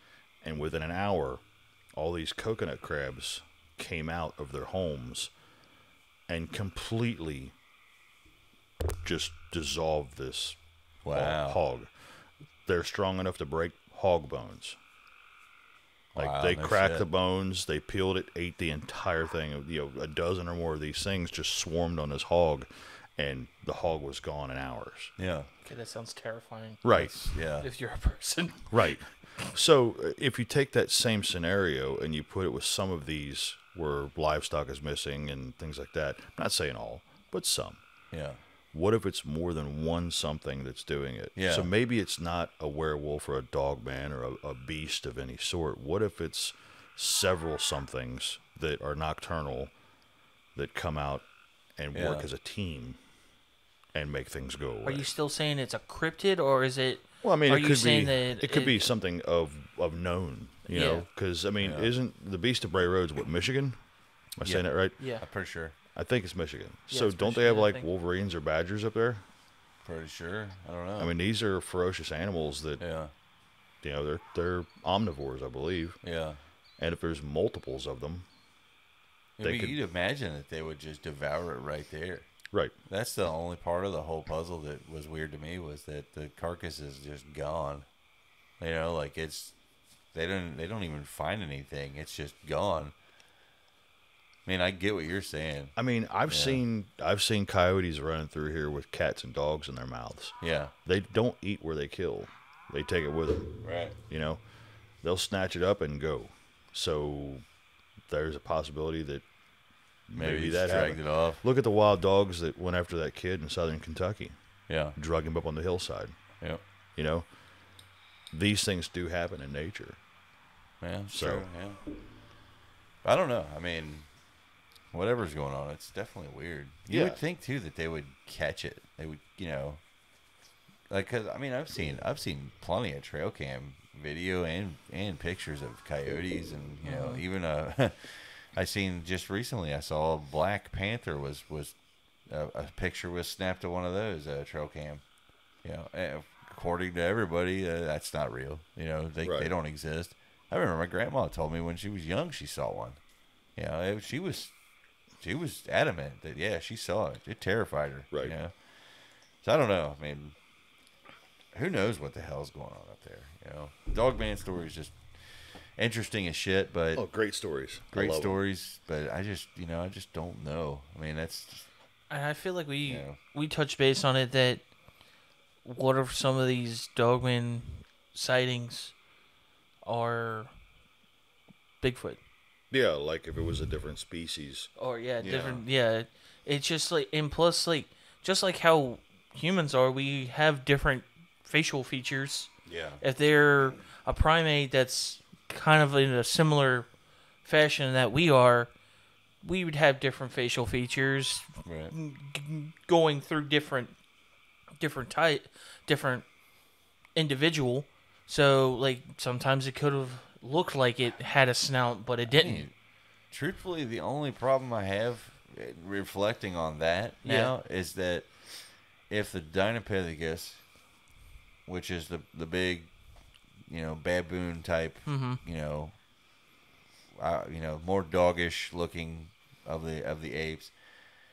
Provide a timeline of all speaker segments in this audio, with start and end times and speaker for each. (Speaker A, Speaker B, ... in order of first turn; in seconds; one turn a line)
Speaker A: 0.4-5.3
Speaker A: 6.3-7.5
Speaker A: 9.0-14.8
Speaker B: 11.0-11.6
Speaker A: 16.1-25.1
Speaker B: 16.2-17.1
Speaker B: 25.2-25.5
Speaker C: 25.6-29.5
Speaker A: 26.8-27.4
Speaker B: 26.9-27.7
Speaker A: 28.7-37.8
Speaker B: 38.1-38.4
Speaker A: 38.7-49.7
Speaker B: 41.3-41.7
Speaker A: 50.5-53.0
Speaker B: 51.9-52.3
Speaker A: 53.9-55.1
Speaker C: 54.8-58.9
Speaker A: 57.2-65.0
Speaker C: 60.7-61.1
Speaker B: 61.6-61.9
Speaker B: 64.4-65.7
Speaker C: 65.0-65.2
Speaker A: 65.9-69.2
Speaker C: 66.9-67.9
Speaker B: 69.8-71.1
Speaker A: 71.0-72.9
Speaker B: 72.8-73.1
Speaker A: 73.8-76.1
Speaker B: 76.0-76.4
Speaker A: 76.8-78.3
Speaker B: 79.4-82.3
Speaker A: 79.4-79.8
Speaker B: 82.9-87.8
Speaker B: 88.6-89.5
Speaker B: 90.1-92.9
Speaker B: 94.5-95.7
Speaker A: 95.8-107.5
Speaker B: 96.2-96.6
Speaker B: 100.4-100.7
Speaker B: 103.6-104.0
Speaker A: 108.0-109.3
Speaker A: 110.0-116.4
Speaker B: 110.1-111.4
Speaker B: 114.7-115.0
Speaker A: 116.9-117.3
Speaker A: 118.3-120.0
Speaker B: 120.8-121.8
Speaker A: 121.1-121.5
Speaker B: 123.0-124.1
Speaker B: 124.9-129.8
Speaker A: 126.9-127.2
Speaker B: 130.9-141.7
Speaker C: 136.8-137.2
Speaker B: 142.2-145.0
Speaker B: 145.6-153.0
Speaker A: 149.2-149.5
Speaker B: 153.6-154.5
Speaker B: 155.2-158.5
Speaker B: 159.4-160.3
Speaker B: 161.5-167.1
Speaker A: 166.9-168.4
Speaker B: 167.9-171.7
Speaker C: 172.1-174.7
Speaker B: 172.8-173.2
Speaker C: 175.6-178.9
Speaker C: 179.8-180.5
Speaker C: 181.8-182.2
Speaker A: 182.7-185.6
Speaker C: 184.8-196.9
Speaker B: 185.2-185.6
Speaker B: 192.7-193.0
Speaker C: 197.4-198.7
Speaker C: 199.4-203.9
Speaker B: 201.6-201.9
Speaker C: 204.8-206.3
Speaker C: 207.1-212.7
Speaker B: 212.3-212.7
Speaker B: 213.3-218.6
Speaker C: 217.2-217.5
Speaker B: 219.1-220.7
Speaker B: 221.7-222.9
Speaker B: 223.7-226.0
Speaker C: 225.1-225.4
Speaker B: 227.2-230.7